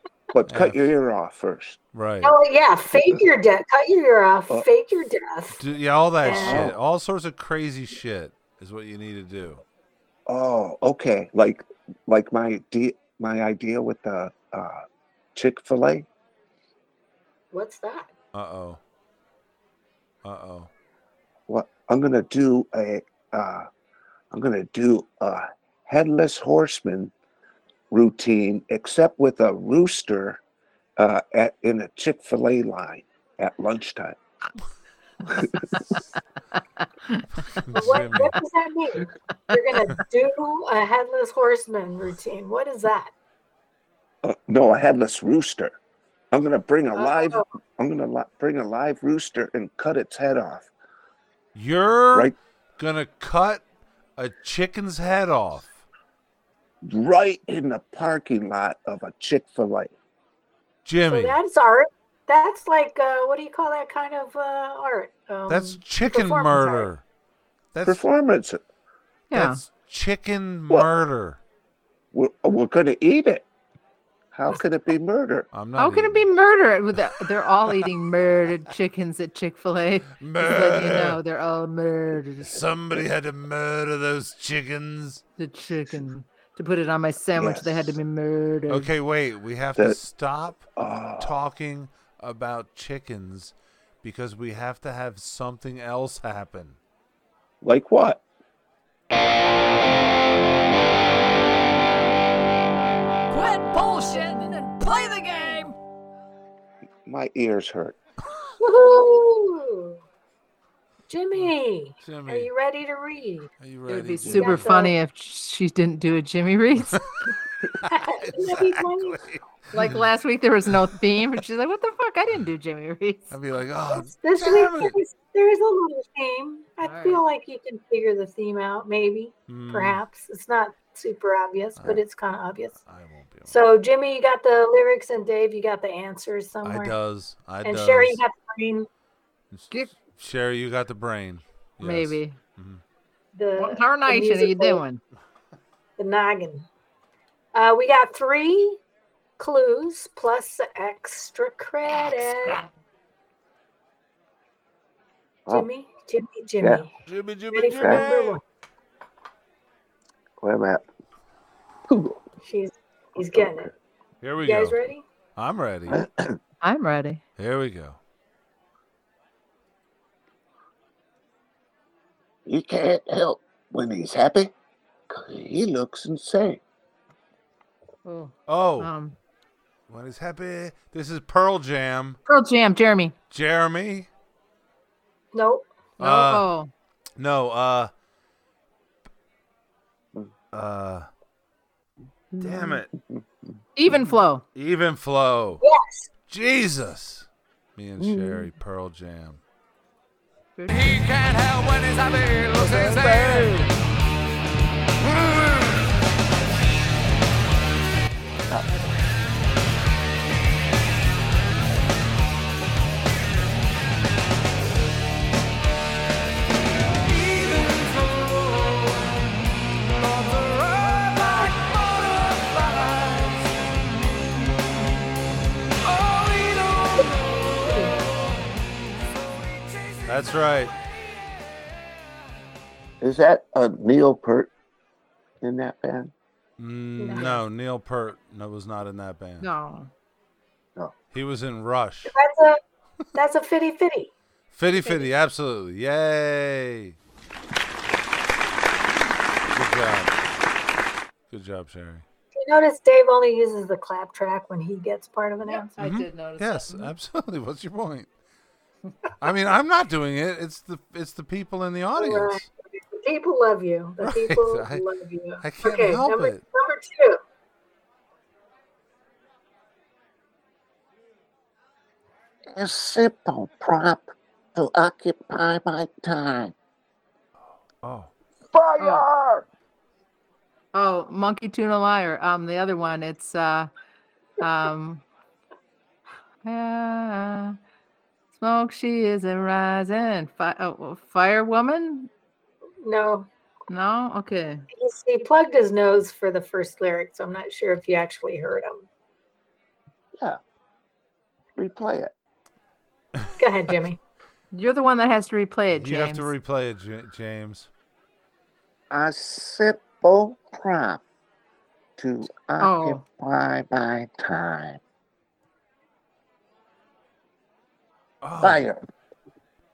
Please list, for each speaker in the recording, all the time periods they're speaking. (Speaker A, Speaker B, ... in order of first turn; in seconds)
Speaker A: 0.3-1.8, 6.3-6.8, 10.3-14.8, 15.3-16.1, 21.5-23.7, 24.3-27.1, 27.9-30.4, 31.0-34.2, 35.2-35.6, 44.2-45.7, 46.3-50.7, 56.8-59.9, 67.8-68.6, 72.1-73.5, 74.3-75.5, 87.3-88.0, 90.8-91.3, 97.6-98.2, 107.0-108.0, 157.8-158.1, 160.4-160.8, 161.9-162.2, 163.3-163.7, 165.9-166.3, 172.4-174.5, 175.1-176.6, 192.3-193.2, 198.0-198.5, 202.7-203.5, 233.0-234.5, 235.4-236.1, 272.5-276.5, 278.5-279.4, 301.6-302.1, 308.9-311.0, 312.0-314.8, 318.4-318.8
Speaker B: 0.5-0.8, 1.9-2.3, 5.6-9.6, 18.3-18.8, 20.2-20.7, 37.4-38.4, 51.5-53.6, 54.2-55.8, 60.8-61.4, 65.5-67.0, 67.7-68.0, 69.3-71.4, 75.5-76.2, 80.2-81.2, 82.5-85.2, 88.7-96.8, 112.0-112.5, 113.6-114.7, 117.8-120.0, 123.3-125.0, 129.5-130.0, 132.8-133.7, 136.6-138.2, 139.5-142.8, 157.1-158.4, 164.2-164.8, 165.4-166.0, 167.4-168.0, 178.5-178.9, 179.9-182.2, 183.3-184.1, 186.0-186.5, 187.2-187.9, 190.5-191.1, 192.4-192.9, 194.5-195.6, 196.3-199.4, 202.5-203.7, 230.1-230.7, 236.6-239.5, 241.1-242.1, 244.5-246.9, 249.5-250.1, 251.3-252.0, 255.8-258.1, 259.2-262.5, 264.0-264.8, 265.4-266.4, 277.8-278.1, 305.7-307.7, 318.2-318.6
Speaker C: 2.2-5.6, 6.2-6.7, 17.5-18.1, 37.7-43.1, 46.9-47.4, 61.1-66.9, 108.6-110.0, 111.1-113.5, 114.3-115.0, 117.8-119.2, 123.9-132.8, 133.5-136.9, 137.6-138.9, 143.3-144.8, 146.0-146.7, 147.5-148.8, 149.4-152.6, 155.5-156.9, 157.5-158.4, 162.4-163.7, 164.4-165.0, 185.3-185.7, 195.6-196.1, 227.6-227.9, 237.0-237.3, 242.1-242.6, 243.1-244.1, 252.3-255.7, 261.9-267.2, 292.8-293.3, 294.7-298.9, 303.4-304.0
Speaker D: 69.3-69.6, 75.8-82.6, 85.4-88.9, 103.3-105.6, 113.9-117.0, 119.7-123.3, 126.8-127.2, 141.8-142.4, 143.6-145.0, 166.6-167.2, 178.0-179.2, 182.3-183.1, 186.0-186.7, 193.8-194.4, 200.6-201.0, 239.4-239.9, 244.7-245.1, 255.4-256.9, 278.8-279.0, 280.7-283.7, 284.4-285.0, 286.4-287.6, 288.3-292.1, 293.7-294.6, 304.5-306.3, 312.6-313.0
Speaker E: 200.8-203.2, 217.0-223.5, 225.8-230.4